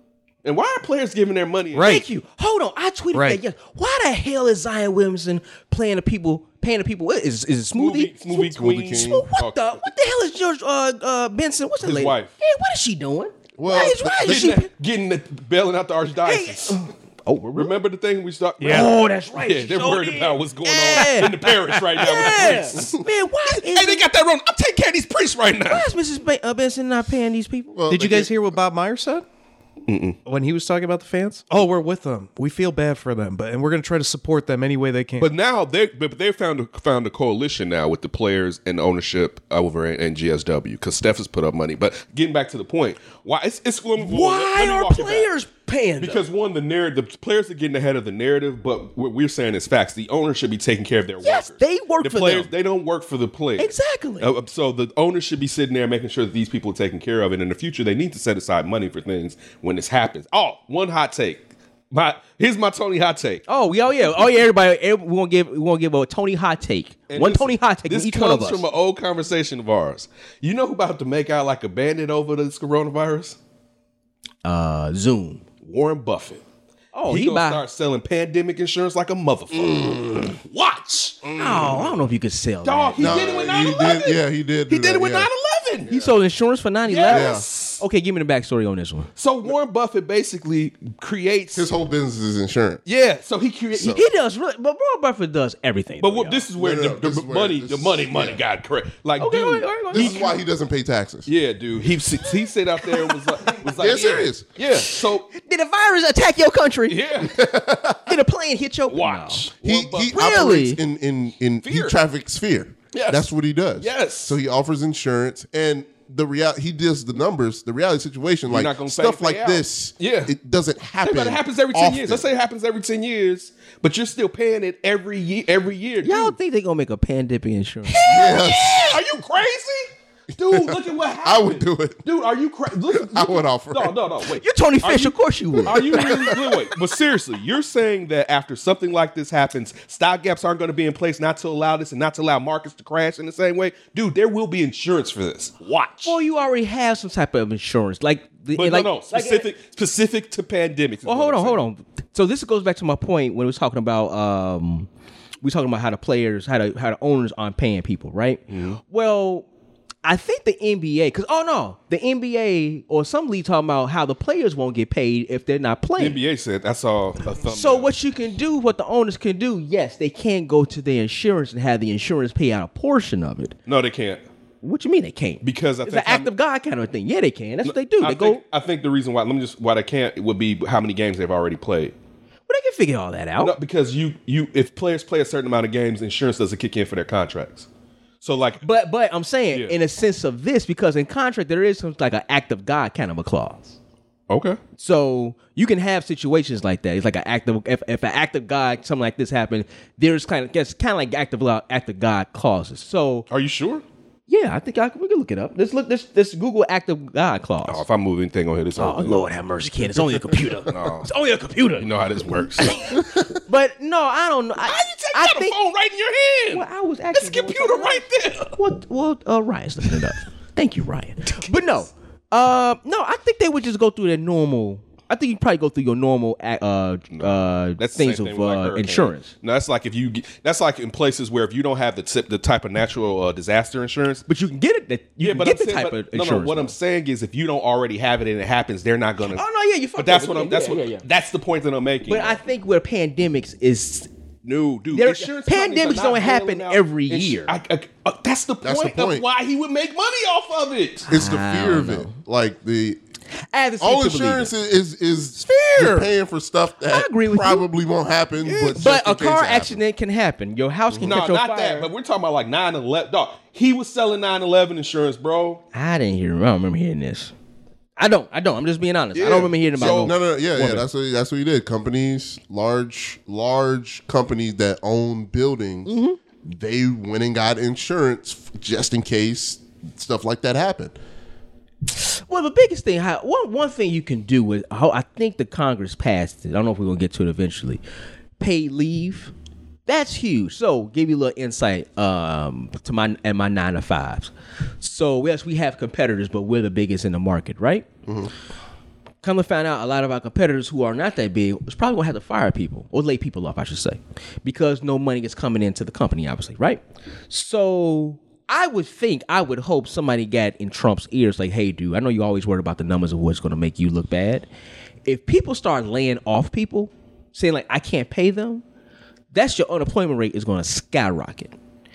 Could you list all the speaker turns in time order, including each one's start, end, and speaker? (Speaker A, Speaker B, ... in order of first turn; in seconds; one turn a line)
Speaker A: 0.4-1.9
Speaker B: 1.7-2.0
Speaker C: 1.8-14.7
Speaker B: 3.1-3.4
Speaker A: 7.7-9.9
Speaker D: 8.4-9.2
Speaker A: 11.8-12.4
Speaker D: 13.6-14.4
Speaker A: 13.6-16.8
Speaker C: 16.2-17.7
Speaker A: 17.5-25.9
Speaker B: 18.6-18.9
Speaker C: 18.6-24.0
Speaker C: 25.6-27.7
Speaker D: 27.7-28.4
Speaker B: 27.9-29.2
Speaker A: 29.9-30.2
Speaker B: 30.2-35.3
Speaker A: 35.2-45.3
Speaker C: 44.0-46.2
Speaker A: 46.0-63.4
Speaker C: 51.2-52.5
Speaker C: 53.6-54.3
Speaker C: 63.5-68.6
Speaker A: 67.1-73.4
Speaker C: 74.4-75.4
Speaker A: 75.6-76.4
Speaker C: 76.9-77.6
Speaker A: 77.1-81.9
Speaker D: 79.5-80.3
Speaker C: 81.4-83.2
Speaker A: 82.6-86.0
Speaker D: 83.0-85.3
Speaker D: 85.8-86.2
Speaker C: 85.9-89.1
Speaker A: 86.8-87.8
Speaker D: 87.1-87.5
Speaker A: 89.2-91.7
Speaker D: 91.5-92.8
Speaker A: 92.8-94.1
Speaker C: 93.8-96.5
Speaker A: 96.0-100.3
Speaker D: 96.6-98.4
Speaker C: 99.2-100.3
Speaker D: 99.9-101.3
Speaker A: 101.2-105.3
Speaker C: 102.3-103.7
Speaker D: 103.7-104.5
Speaker C: 104.7-109.5
Speaker A: 106.9-107.3
Speaker D: 107.2-108.2
Speaker A: 108.9-110.2
Speaker D: 109.6-122.3
Speaker C: 110.1-110.8
Speaker A: 111.6-112.0
Speaker A: 112.9-114.4
Speaker A: 118.4-120.3
Speaker A: 121.0-126.3
Speaker C: 126.0-129.0
Speaker D: 127.9-129.0
Speaker A: 128.1-146.2
Speaker D: 130.5-132.0
Speaker D: 132.9-134.0
Speaker C: 134.3-136.4
Speaker D: 135.7-136.6
Speaker C: 146.0-149.5
Speaker A: 148.5-151.6
Speaker C: 151.0-154.9
Speaker C: 155.4-159.4
Speaker A: 158.5-158.8
Speaker C: 160.0-166.2
Speaker A: 166.0-167.9
Speaker C: 167.4-173.6
Speaker A: 173.7-174.2
Speaker C: 174.6-178.4
Speaker A: 175.4-176.3
Speaker A: 177.6-181.9
Speaker C: 182.5-183.5
Speaker A: 183.4-187.7
Speaker A: 188.2-188.6
Speaker C: 188.6-193.8
Speaker A: 194.3-194.6
Speaker C: 194.8-203.3
Speaker A: 203.3-203.8
Speaker C: 204.3-207.8
Speaker A: 207.7-209.3
Speaker C: 208.8-215.6
Speaker A: 210.7-211.1
Speaker A: 211.8-212.8
Speaker A: 214.6-218.6
Speaker C: 216.5-229.3
Speaker A: 227.1-234.2
Speaker C: 234.3-236.7
Speaker A: 235.2-239.4
Speaker C: 239.3-241.0
Speaker A: 240.0-242.4
Speaker C: 242.1-244.1
Speaker A: 244.4-251.1
Speaker C: 244.9-247.5
Speaker D: 248.6-249.2
Speaker C: 251.1-252.2
Speaker D: 251.1-253.0
Speaker C: 253.5-254.5
Speaker D: 253.8-259.8
Speaker C: 255.3-256.1
Speaker C: 256.8-257.6
Speaker A: 258.4-258.9
Speaker C: 258.8-261.9
Speaker D: 260.9-261.2
Speaker A: 261.0-265.6
Speaker C: 265.7-267.3
Speaker C: 268.0-270.8
Speaker A: 269.1-270.1
Speaker D: 269.9-280.9
Speaker C: 275.9-276.2
Speaker C: 281.9-287.8
Speaker C: 288.4-289.3
Speaker C: 289.9-297.9
Speaker D: 298.1-298.3
Speaker C: 299.2-314.5
Speaker C: 315.1-318.6
Speaker C: 319.3-321.6